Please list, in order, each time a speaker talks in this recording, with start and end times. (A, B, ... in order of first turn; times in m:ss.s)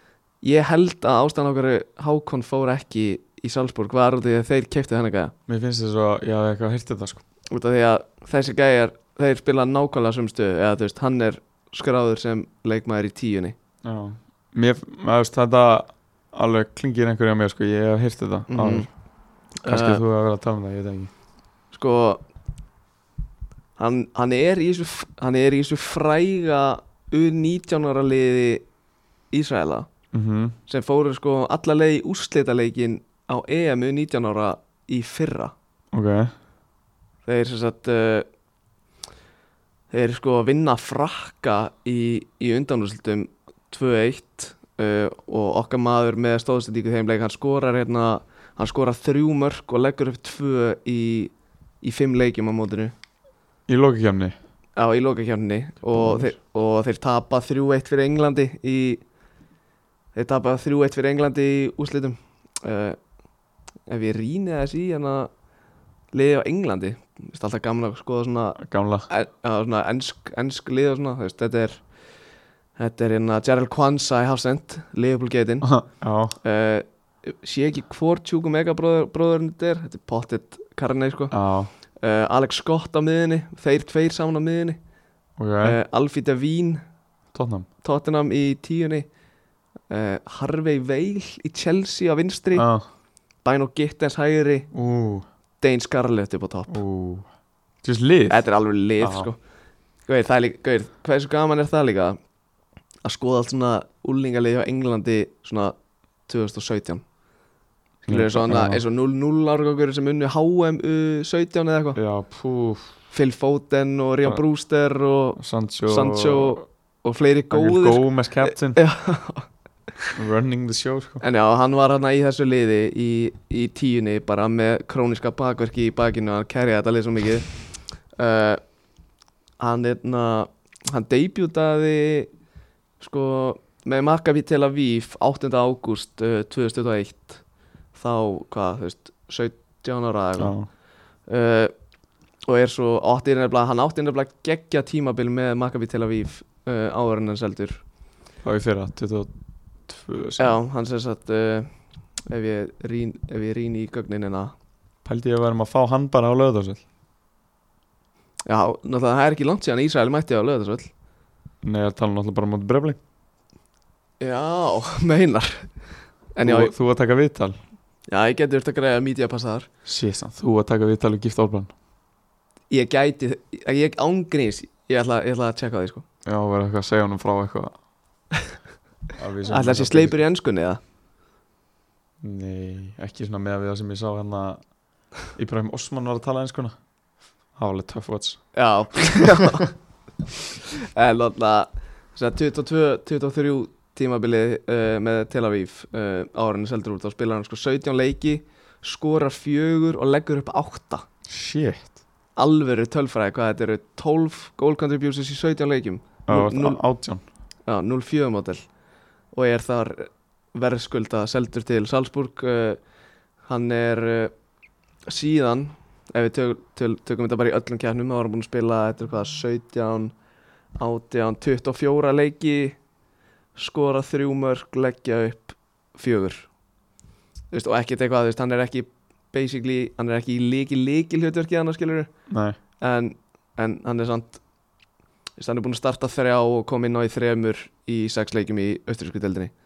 0:00.4-0:05.3 A
0:05.5-0:07.2 B
0:07.5-0:13.6 A
0:13.8-0:18.9 B
0:18.5-0:18.9 A
0:19.6-0:20.0 A
0:19.6-0:21.1 B
0:21.7-0:22.2 A
0:23.8-0:28.6 A
0:29.3-0:29.9 A
0:30.1-0:30.6 B
0:30.7-0:35.5 A
0:35.9-0:36.3 B
0:37.3-0:38.3 A
0:39.9-0:52.9 A
0:53.7-0:54.4 B
0:54.8-0:59.0 A
0:55.9-0:56.4 B
1:00.2-1:03.0 A
1:03.9-1:05.3 A
1:06.1-1:11.8 A
1:08.6-1:09.1 B
1:12.8-1:15.7 A
1:15.6-1:16.4 B
1:16.4-1:21.4 A
1:21.3-1:21.7 B
1:22.0-1:24.8 A
1:25.4-1:25.8 B
1:25.6-1:26.8 A
1:27.3-1:27.7 B
1:27.8-1:29.1 A
1:29.9-1:32.7 A
1:32.6-1:32.8 B
1:33.4-1:34.7 A
1:34.7-1:35.2 B
1:35.6-1:36.8 A
1:36.7-1:37.3 B
1:37.8-1:38.4 B
1:38.3-1:39.4 A
1:39.0-1:39.3 B
1:40.1-1:42.2 A
1:43.0-1:45.8 A
1:46.3-1:47.0 A
1:48.1-1:52.0 A
1:48.1-1:48.8 B
1:52.0-1:52.9 B
1:53.1-1:59.5 A
1:55.4-1:56.6 B
1:57.5-1:58.8 B
2:00.2-2:01.2 B
2:01.2-2:08.6 A
2:09.6-2:12.3 A
2:13.0-2:17.4 A
2:17.9-2:20.6 A
2:20.4-2:20.7 B
2:21.3-2:21.7 A
2:22.5-2:27.8 A
2:28.4-2:29.3 B
2:29.9-2:30.6 B
2:30.4-2:31.7 A
2:32.3-2:34.5 A
2:35.0-2:36.8 B
2:38.5-2:40.9 A
2:41.6-2:43.0 B
2:44.2-2:45.7 A
2:46.4-2:46.7 A
2:46.4-2:47.6 B
2:48.1-2:49.7 A
2:49.8-2:51.7 B
2:52.7-2:56.0 A
2:56.2-2:57.8 B
2:59.2-3:00.2 B
2:59.5-3:00.8 A
3:02.2-3:04.6 B
3:05.3-3:06.8 B
3:07.6-3:08.4 B
3:08.5-3:09.7 A
3:10.6-3:21.0 A
3:21.3-3:21.9 B
3:22.4-3:26.8 A
3:26.3-3:27.2 B
3:27.7-3:28.6 A
3:29.3-3:32.8 A
3:33.5-3:34.3 A
3:35.1-3:40.1 A
3:40.8-3:42.8 A
3:43.6-3:46.5 A
3:47.5-3:52.1 A
3:52.3-3:52.6 B
3:52.8-3:54.4 A
3:55.4-3:59.5 A